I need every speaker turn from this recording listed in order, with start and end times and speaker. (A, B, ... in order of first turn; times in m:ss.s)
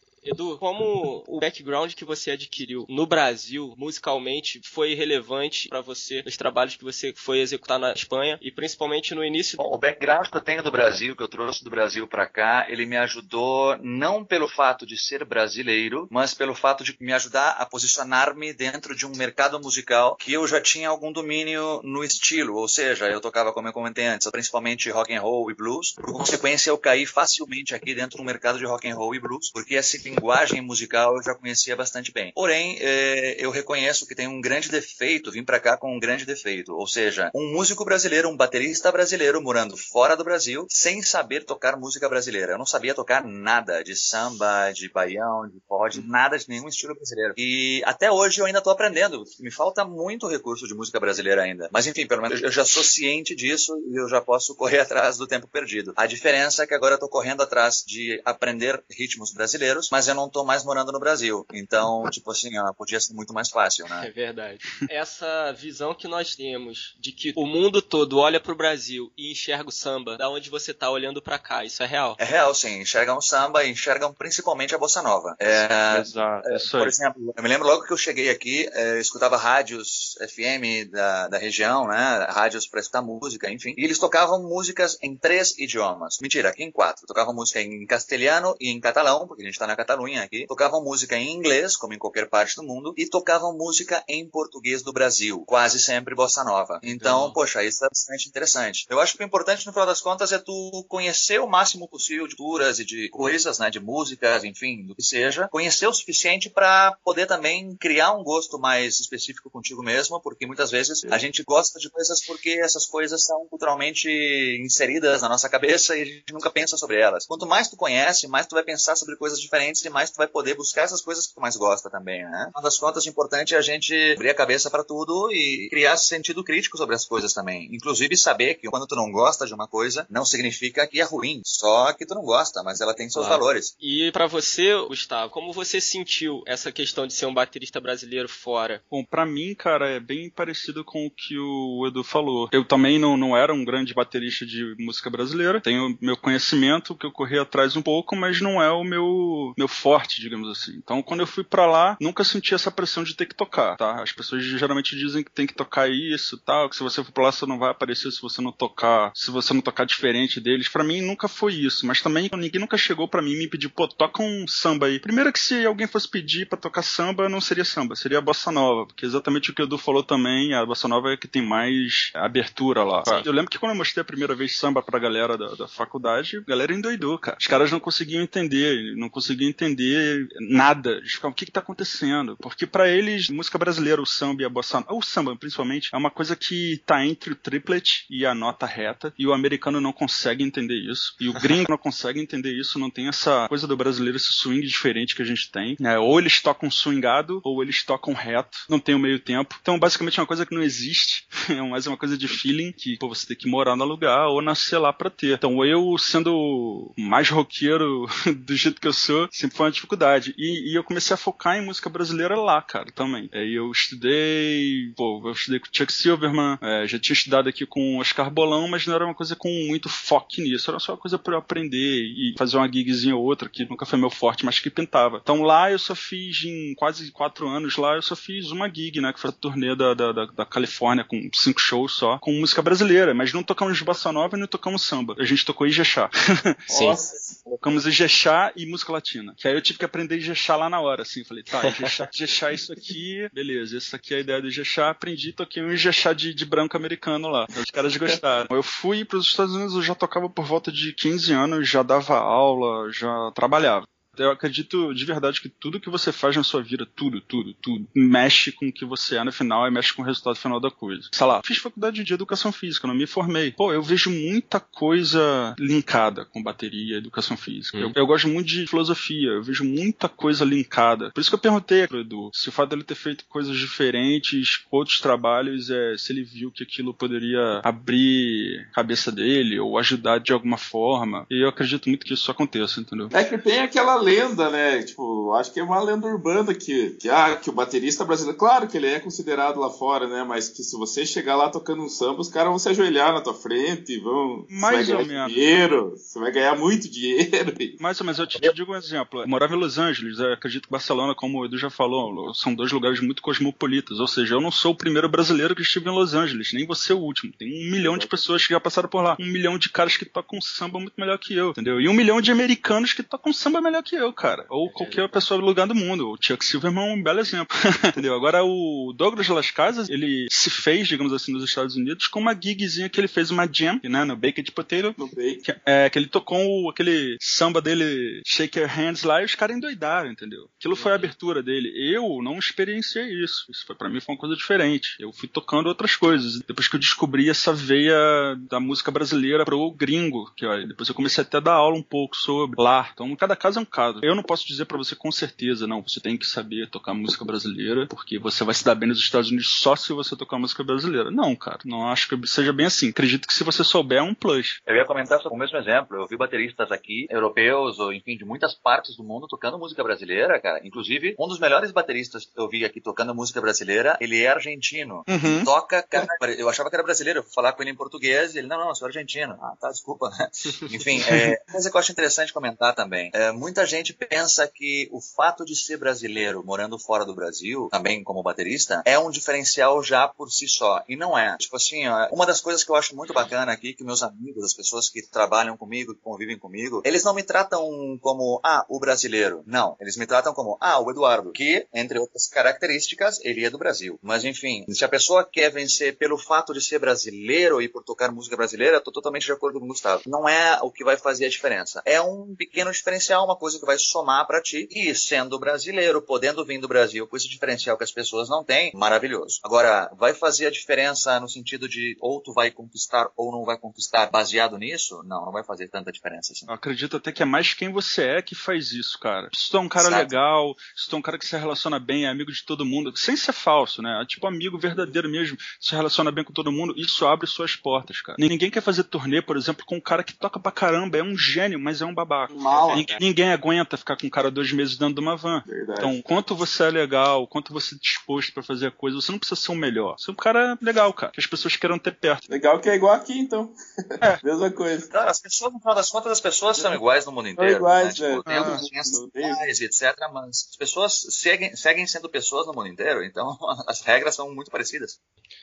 0:00.2-0:09.6 A
0:09.6-1:04.1 B
1:03.9-1:12.2 A
1:12.2-2:13.7 B
1:15.9-1:16.9 C
1:36.8-1:37.4 A
2:13.1-2:18.8 A
2:18.9-3:56.6 C
3:56.7-3:57.4 D
3:56.7-3:57.0 A
3:57.6-4:43.1 C
4:01.6-4:02.0 A
4:43.1-4:57.8 D
4:54.5-4:55.4 C
4:57.8-5:54.6 C
5:07.8-5:08.3 D
5:14.6-5:15.0 A
5:25.0-5:25.4 D
5:30.7-5:31.1 A
5:54.6-6:56.5 B
6:05.1-6:05.5 C
6:11.1-6:11.3 C
6:56.5-7:22.2 C
6:59.8-7:00.1 B
7:12.4-7:12.8 D
7:12.4-7:13.0 A
7:15.4-7:15.9 D
7:22.3-7:23.5 D
7:24.2-7:24.9 D
7:24.9-7:35.0 B
7:27.4-7:29.4 D
7:28.3-7:28.6 C